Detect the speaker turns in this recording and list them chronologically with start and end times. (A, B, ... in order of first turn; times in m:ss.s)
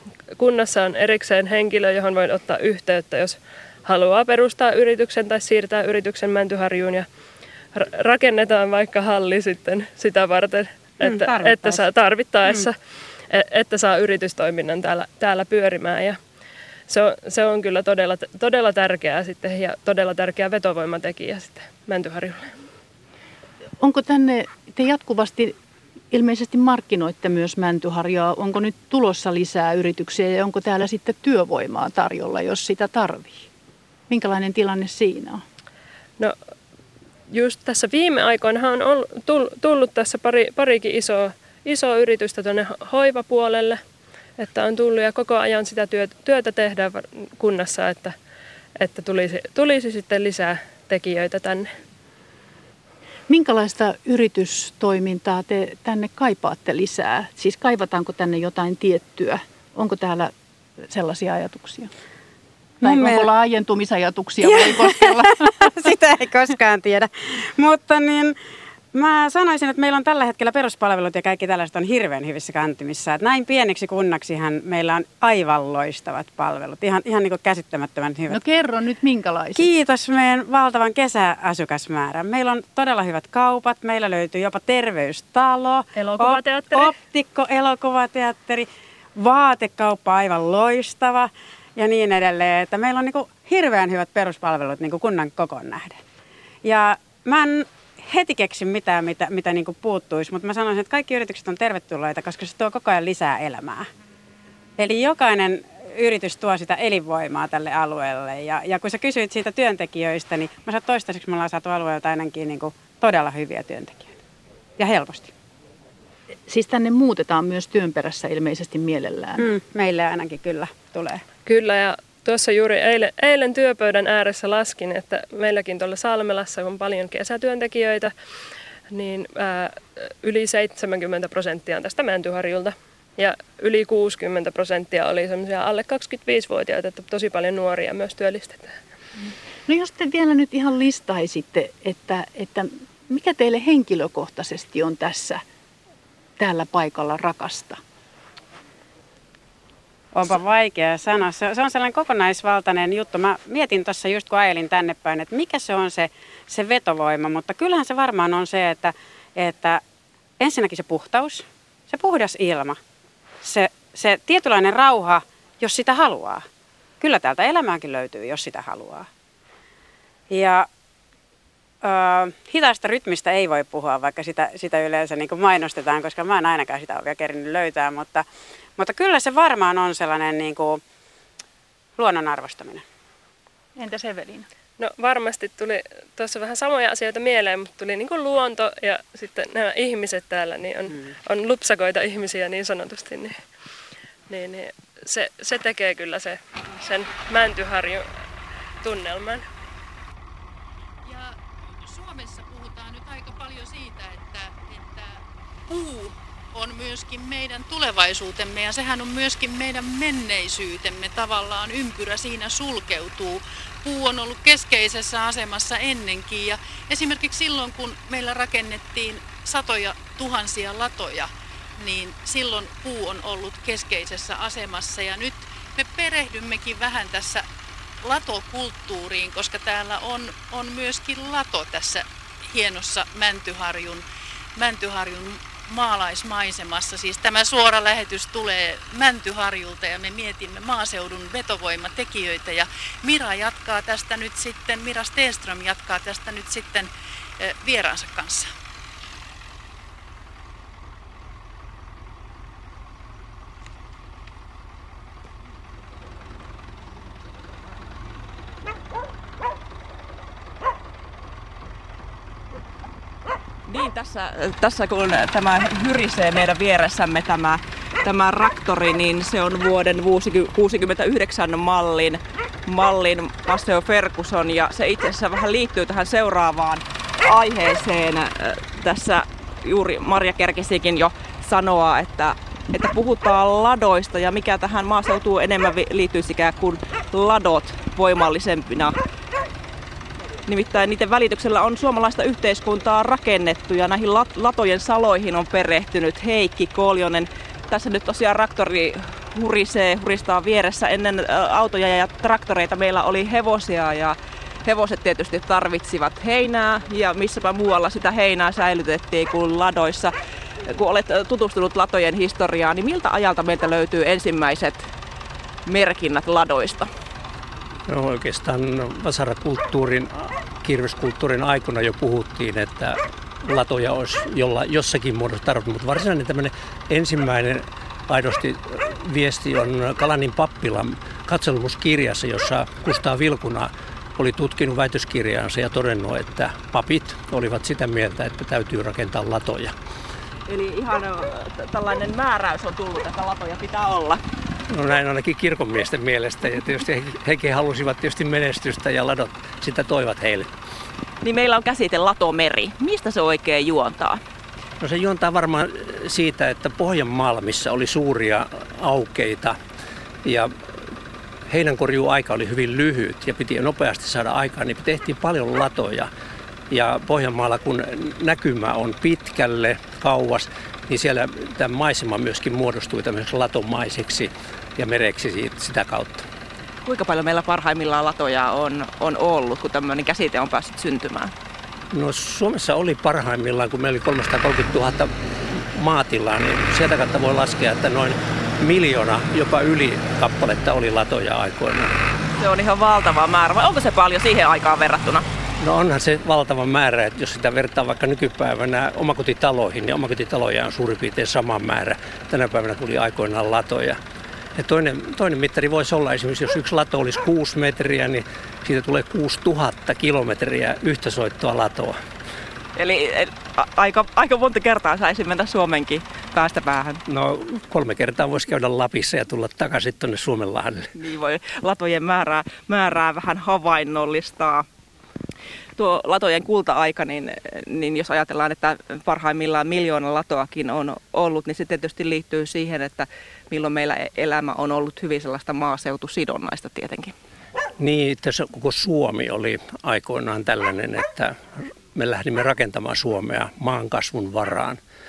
0:00.4-0:07.1 A
0:07.7-0:12.7 A
0:11.0-0:11.8 B
0:13.3-0:16.2 A
0:16.9-0:22.5 A
0:23.8-0:25.5 C
0:26.1-0:33.5 C
0:34.1-0:35.4 C
0:37.3-0:43.8 A
0:44.4-0:48.2 A
0:48.8-0:51.7 A
0:53.3-1:00.3 C
1:00.9-1:01.9 C
1:02.8-1:03.2 B
1:02.8-1:05.7 C
1:04.4-1:05.1 B
1:05.6-1:08.4 B
1:08.9-1:18.4 B
1:18.3-1:19.7 C
1:19.6-1:28.7 B
1:26.0-1:26.9 A
1:29.2-1:36.0 B
1:36.6-1:43.9 B
1:44.8-1:54.1 B
1:54.8-1:55.3 B
1:56.5-1:59.5 C
1:59.4-2:01.2 B
2:01.5-2:08.1 A
2:08.9-2:18.8 A
2:19.7-2:25.4 C
2:26.4-2:27.8 C
2:30.1-2:39.8 B
2:40.4-2:42.8 B
2:43.4-2:46.4 B
2:47.0-2:49.1 B
2:50.3-2:50.7 B
2:51.8-2:58.2 B
2:58.8-3:00.8 B
3:02.0-3:02.8 B
3:03.8-3:04.5 C
3:04.8-3:13.4 A
3:14.3-3:18.0 A
3:18.8-3:19.4 A
3:21.0-3:47.5 C
3:48.0-3:54.0 C
3:54.6-4:08.5 C
4:23.7-4:49.0 D
4:50.5-5:10.1 D
5:10.7-5:14.9 D
5:15.7-5:16.9 D
5:17.9-5:39.8 E
5:40.5-5:44.2 D
5:44.7-5:50.5 E
5:51.2-5:54.2 D
5:54.8-5:59.6 E
6:00.2-6:00.5 E
6:01.5-6:06.1 E
6:06.7-6:16.2 E
6:16.8-6:21.3 D
6:21.9-6:25.1 E
6:25.7-6:31.9 E
6:32.4-6:35.2 D
6:35.6-6:44.0 E
6:44.6-6:52.0 E
6:52.8-6:57.0 D
6:57.1-7:00.9 E
7:01.0-7:04.7 D
7:05.8-7:17.1 D
7:17.8-7:21.4 E
7:21.9-7:24.8 E